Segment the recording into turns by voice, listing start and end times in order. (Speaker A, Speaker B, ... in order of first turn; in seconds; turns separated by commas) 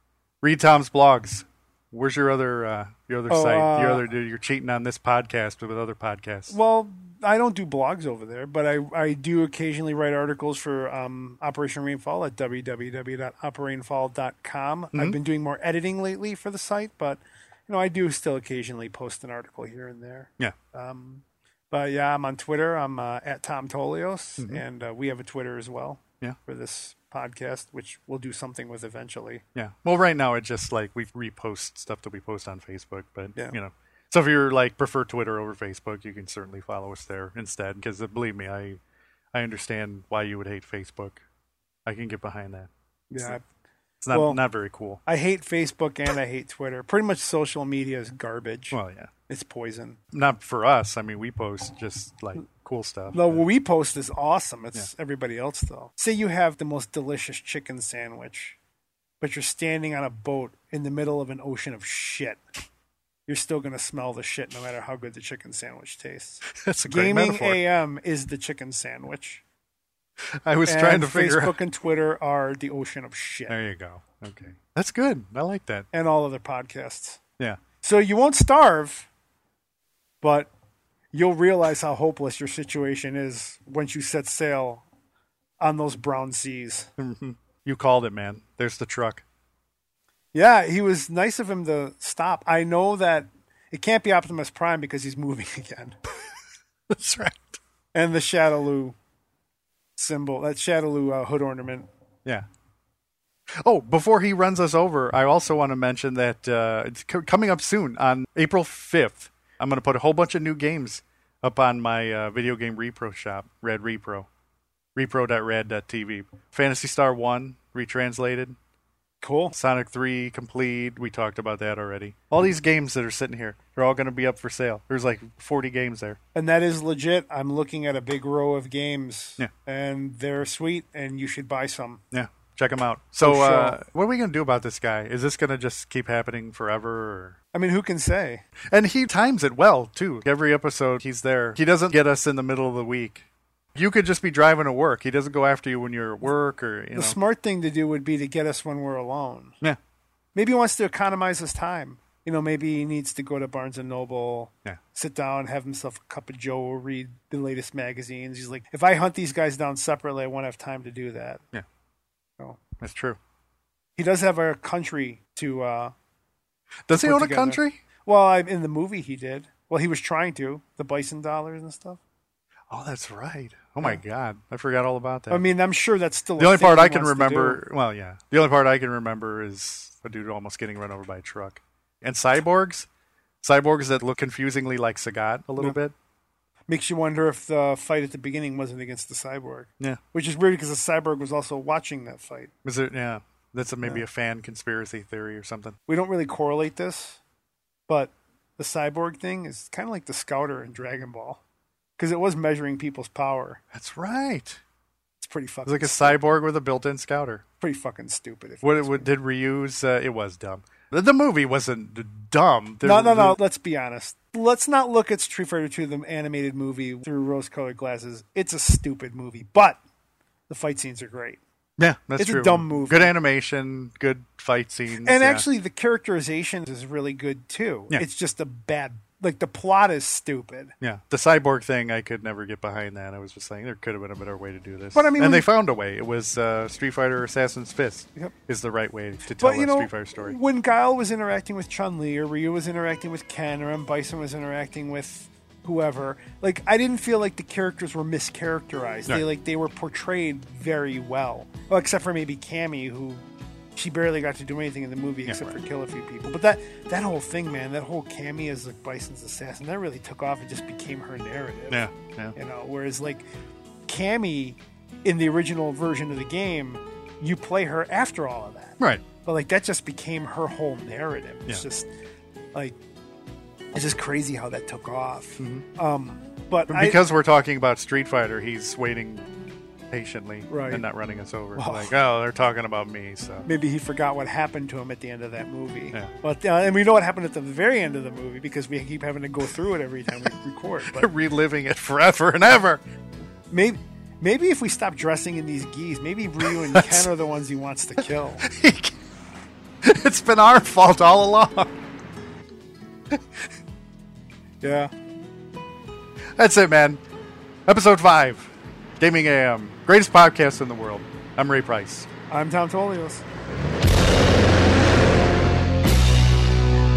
Speaker A: 0.4-6.5, Speaker B: 3.3-4.0, Speaker B: 6.5-29.4, Speaker A: 29.5-38.8, Speaker A: 39.3-41.2, Speaker A: 41.9-43.4, Speaker B: 43.1-43.4, Speaker A: 44.0-45.0, Speaker B: 44.1-44.4, Speaker B: 45.0-50.0, Speaker A: 48.7-49.1, Speaker A: 50.1-53.4, Speaker B: 53.1-58.6, Speaker B: 59.2-62.4, Speaker B: 63.3-69.4, Speaker A: 66.5-67.6, Speaker A: 70.2-71.5, Speaker B: 70.7-73.5, Speaker A: 73.5-75.9, Speaker B: 75.9-77.2, Speaker B: 77.8-79.1, Speaker B: 80.2-80.5, Speaker B: 81.1-84.8, Speaker B: 85.6-86.9, Speaker A: 87.0-89.2, Speaker B: 90.3-96.0, Speaker A: 96.9-97.6, Speaker B: 97.9-99.0, Speaker B: 100.0-101.9, Speaker A: 103.6-114.3, Speaker A: 114.9-118.6, Speaker B: 119.2-119.5, Speaker A: 119.5-126.2, Speaker B: 126.3-132.0, Speaker A: 132.1-137.4, Speaker B: 133.2-133.8, Speaker B: 137.5-138.4, Speaker A: 138.6-147.2, Speaker B: 146.9-149.6, Speaker B: 150.3-161.4, Speaker A: 162.8-163.2, Speaker B: 163.9-165.9, Speaker A: 166.9-167.8, Speaker B: 167.0-172.0, Speaker A: 172.7-175.4, Speaker B: 175.3-177.6, Speaker A: 176.4-182.9, Speaker A: 183.4-185.9, Speaker B: 186.7-192.5, Speaker A: 192.6-195.8, Speaker B: 195.9-197.2, Speaker B: 197.9-201.4, Speaker B: 202.0-203.6, Speaker A: 203.7-204.6, Speaker B: 205.2-206.2, Speaker A: 205.7-207.4, Speaker B: 207.6-209.1, Speaker A: 208.6-213.4, Speaker B: 212.8-219.8, Speaker B: 220.5-221.4, Speaker A: 221.8-225.4, Speaker B: 222.2-223.1, Speaker B: 225.0-230.7, Speaker A: 230.8-240.3, Speaker B: 234.9-235.5, Speaker B: 239.4-253.2, Speaker B: 253.7-263.2, Speaker A: 255.3-255.6, Speaker A: 261.7-262.4, Speaker B: 263.9-271.9, Speaker A: 268.8-269.0, Speaker B: 273.7-277.0, Speaker A: 275.4-275.6, Speaker A: 276.7-279.3, Speaker A: 279.9-283.5, Speaker B: 280.5-280.8, Speaker B: 281.5-281.9, Speaker B: 283.4-291.1, Speaker A: 290.9-292.8, Speaker B: 293.5-298.4, Speaker A: 296.4-297.1, Speaker A: 298.4-298.9, Speaker A: 299.8-301.8, Speaker A: 303.1-303.5, Speaker B: 304.6-304.9, Speaker A: 306.4-307.0, Speaker A: 307.6-312.1, Speaker B: 312.3-313.2